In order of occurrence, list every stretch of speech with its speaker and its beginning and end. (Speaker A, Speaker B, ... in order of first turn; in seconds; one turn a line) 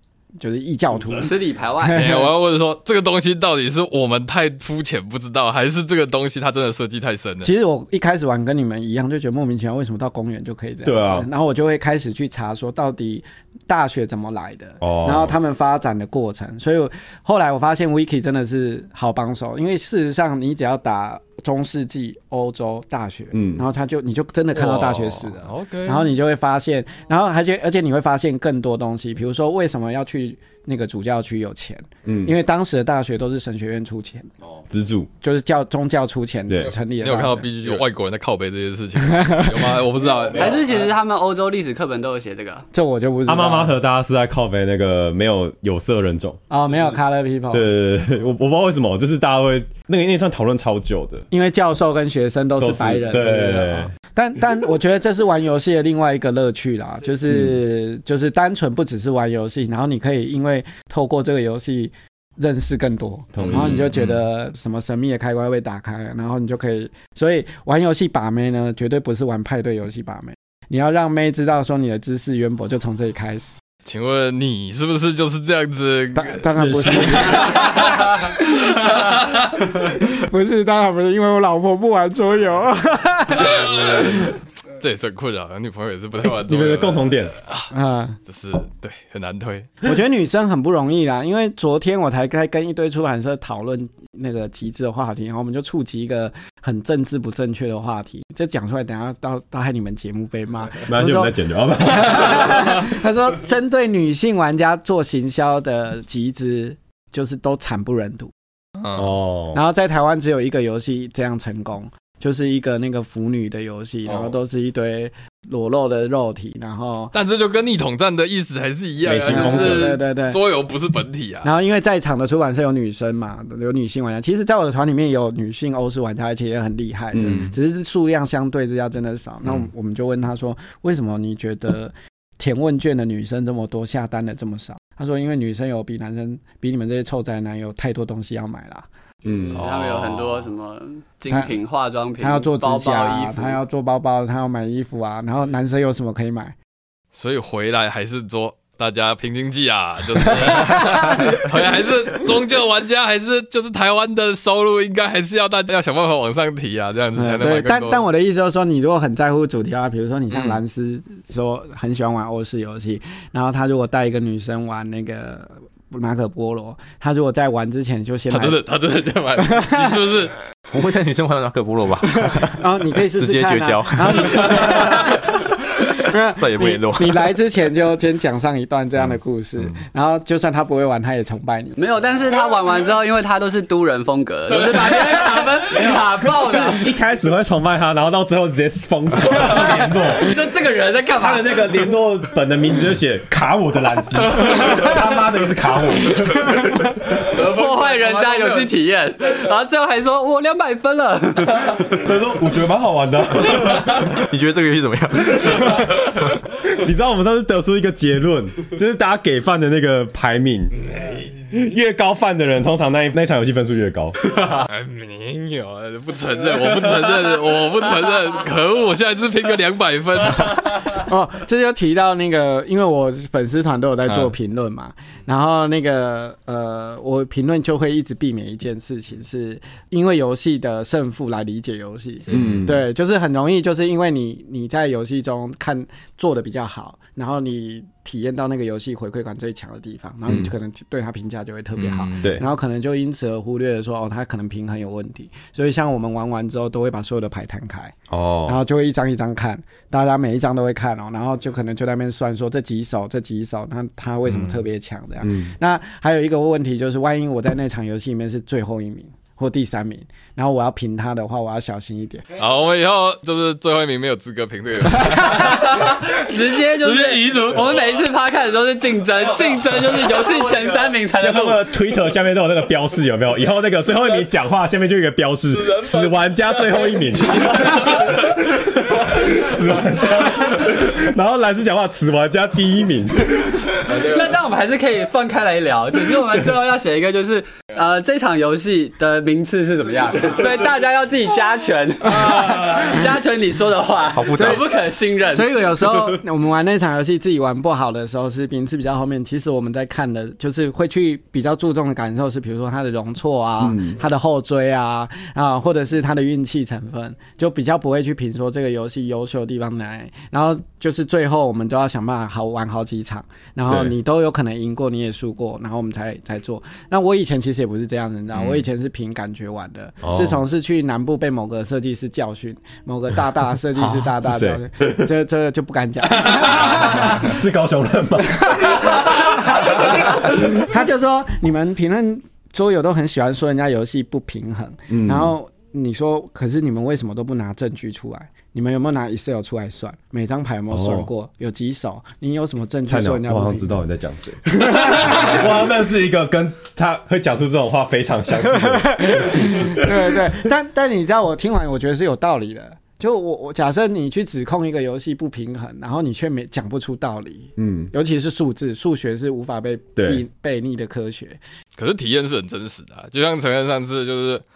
Speaker A: 0.4-2.3
Speaker B: 1.1-2.1
Speaker C: 1.9-7.5
Speaker A: 7.4-34.3
Speaker D: 10.8-11.3
Speaker D: 14.8-15.4
Speaker D: 23.3-23.6
Speaker C: 24.5-26.1
Speaker D: 32.0-32.3
Speaker D: 34.7-35.1
Speaker A: 35.2-37.5
Speaker C: 37.0-40.8
Speaker A: 39.1-39.8
Speaker B: 40.3-42.7
Speaker A: 42.7-43.8
Speaker D: 43.3-46.4
Speaker A: 46.5-47.7
Speaker D: 47.5-51.3
Speaker A: 51.3-73.6
Speaker D: 52.6-53.9
Speaker D: 63.4-63.9
Speaker C: 63.4-64.2
Speaker C: 73.8-78.0
Speaker A: 76.2-84.3
Speaker D: 76.6-77.5
Speaker C: 83.3-87.7
Speaker D: 86.4-87.3
Speaker A: 87.7-88.2
Speaker C: 88.3-89.9
Speaker A: 89.8-108.3
Speaker D: 100.9-102.7
Speaker C: 108.8-109.1
Speaker D: 109.0-109.6
Speaker A: 109.5-117.1
Speaker C: 117.1-121.5
Speaker D: 119.0-120.0
Speaker A: 119.2-120.4
Speaker A: 121.4-138.9
Speaker D: 127.1-127.5
Speaker C: 127.3-127.5
Speaker D: 139.2-139.7
Speaker B: 139.5-143.6
Speaker C: 139.5-140.5
Speaker A: 142.2-146.6
Speaker C: 147.1-158.0
Speaker A: 150.1-151.7
Speaker A: 157.2-168.6
Speaker C: 160.3-160.6
Speaker C: 168.3-170.4
Speaker A: 169.5-169.9
Speaker E: 170.7-175.2
Speaker A: 172.2-181.8
Speaker C: 174.6-174.9
Speaker E: 176.4-177.3
Speaker B: 181.8-186.9
Speaker D: 185.7-190.3
Speaker B: 189.5-191.9
Speaker D: 191.2-196.9
Speaker B: 194.4-194.9
Speaker B: 197.2-202.0
Speaker C: 197.3-198.7
Speaker D: 201.9-204.1
Speaker E: 204.1-205.9
Speaker D: 206.7-210.8
Speaker D: 211.5-214.2
Speaker C: 214.5-221.0
Speaker A: 220.8-262.2
Speaker C: 224.1-224.3
Speaker D: 232.3-232.8
Speaker C: 241.8-242.3
Speaker D: 248.1-248.6
Speaker D: 255.2-255.5
Speaker C: 262.4-268.0
Speaker B: 265.5-271.7
Speaker D: 271.2-283.6
Speaker C: 275.6-278.3
Speaker C: 283.8-284.4
Speaker B: 283.9-295.5
Speaker A: 292.2-292.8
Speaker D: 292.3-292.9
Speaker E: 294.1-294.7
Speaker A: 294.4-294.6
Speaker A: 295.3-327.3
Speaker D: 303.6-304.0
Speaker D: 313.7-313.9
Speaker C: 318.3-318.6
Speaker D: 320.0-320.4
Speaker D: 324.2-325.1
Speaker D: 326.5-329.0
Speaker A: 328.4-343.8
Speaker D: 334.9-335.4
Speaker D: 340.7-341.1
Speaker D: 342.9-350.2
Speaker A: 344.5-345.5
Speaker A: 348.6-361.4
Speaker D: 357.6-357.9
Speaker D: 360.0-360.2
Speaker C: 361.8-364.4